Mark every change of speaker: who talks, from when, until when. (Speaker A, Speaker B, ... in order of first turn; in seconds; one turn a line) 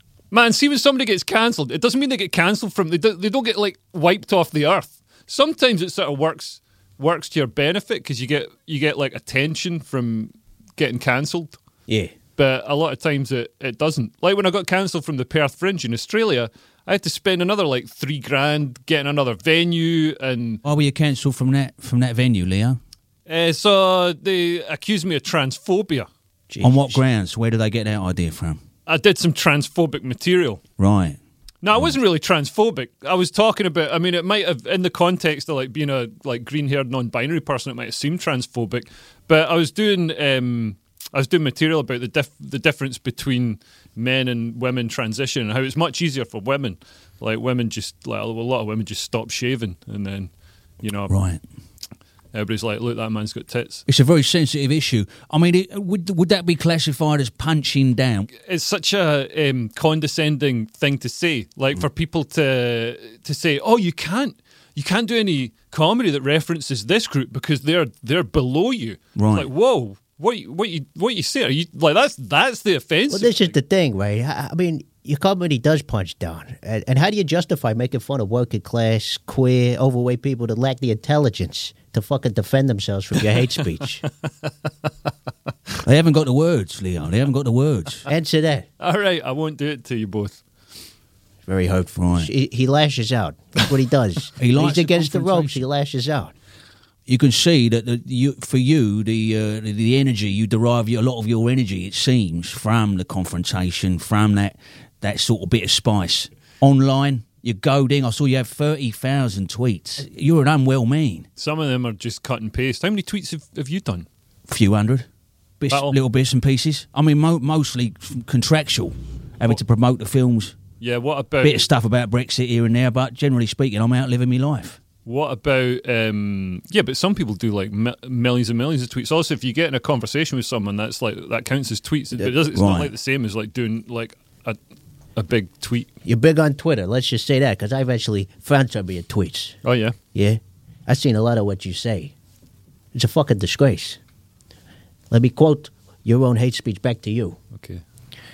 Speaker A: 0.3-11.6
Speaker A: 12.3-20.6
Speaker B: 20.6-22.8
Speaker A: 23.3-26.1
Speaker C: 26.5-27.0
Speaker B: 26.6-28.6
Speaker A: 28.9-30.6
Speaker B: 30.8-31.2
Speaker A: 31.6-51.1
Speaker B: 51.1-51.4
Speaker A: 52.3-53.8
Speaker B: 53.9-58.3
Speaker A: 58.4-73.5
Speaker B: 69.2-69.5
Speaker C: 73.1-84.0
Speaker B: 85.8-88.0
Speaker C: 88.1-88.7
Speaker A: 88.8-90.4
Speaker C: 91.5-96.3
Speaker B: 92.0-92.3
Speaker B: 94.4-95.6
Speaker B: 97.1-111.2
Speaker A: 111.4-114.1
Speaker B: 114.5-115.1
Speaker B: 115.6-120.5
Speaker A: 115.7-116.0
Speaker A: 120.8-121.6
Speaker B: 121.4-124.8
Speaker A: 125.0-134.6
Speaker B: 132.5-132.9
Speaker A: 135.2-135.9
Speaker C: 136.0-139.6
Speaker A: 139.6-139.9
Speaker C: 140.1-142.1
Speaker C: 142.9-144.0
Speaker C: 145.1-147.4
Speaker A: 147.5-147.8